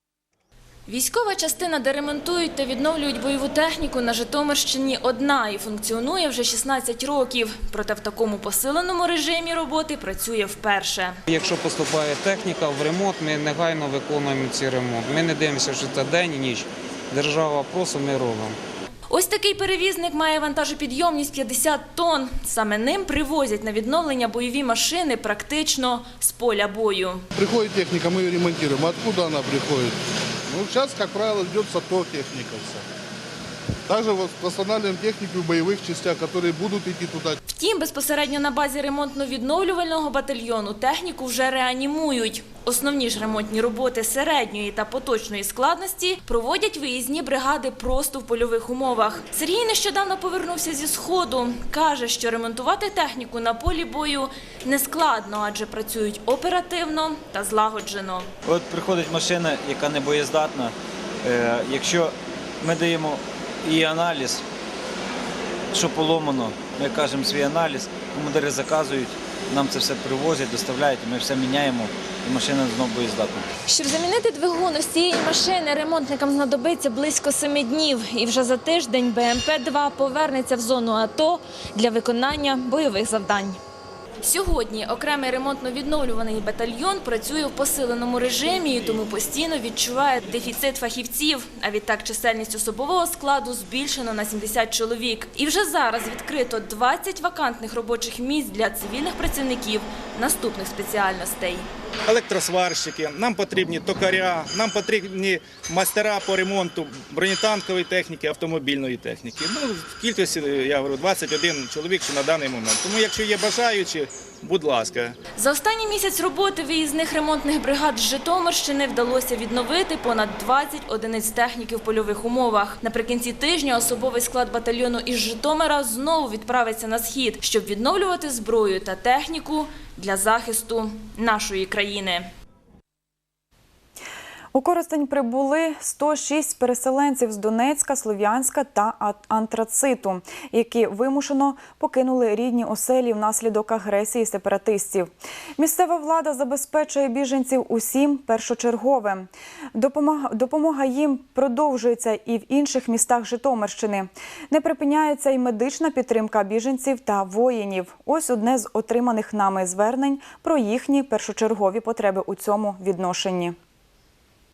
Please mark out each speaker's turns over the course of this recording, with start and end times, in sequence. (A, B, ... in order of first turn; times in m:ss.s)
0:00.9-0:11.2 A
0:11.3-0:18.6 B
0:19.1-0:27.2 A
0:27.4-0:32.8 C
0:33.9-0:37.4 C
0:37.6-0:58.3 A
0:58.5-1:04.4 D
1:05.7-1:13.5 D
1:13.7-1:23.6 A
1:24.2-1:41.7 A
1:42.1-1:55.2 E
1:55.4-2:12.3 A
2:14.5-2:43.6 F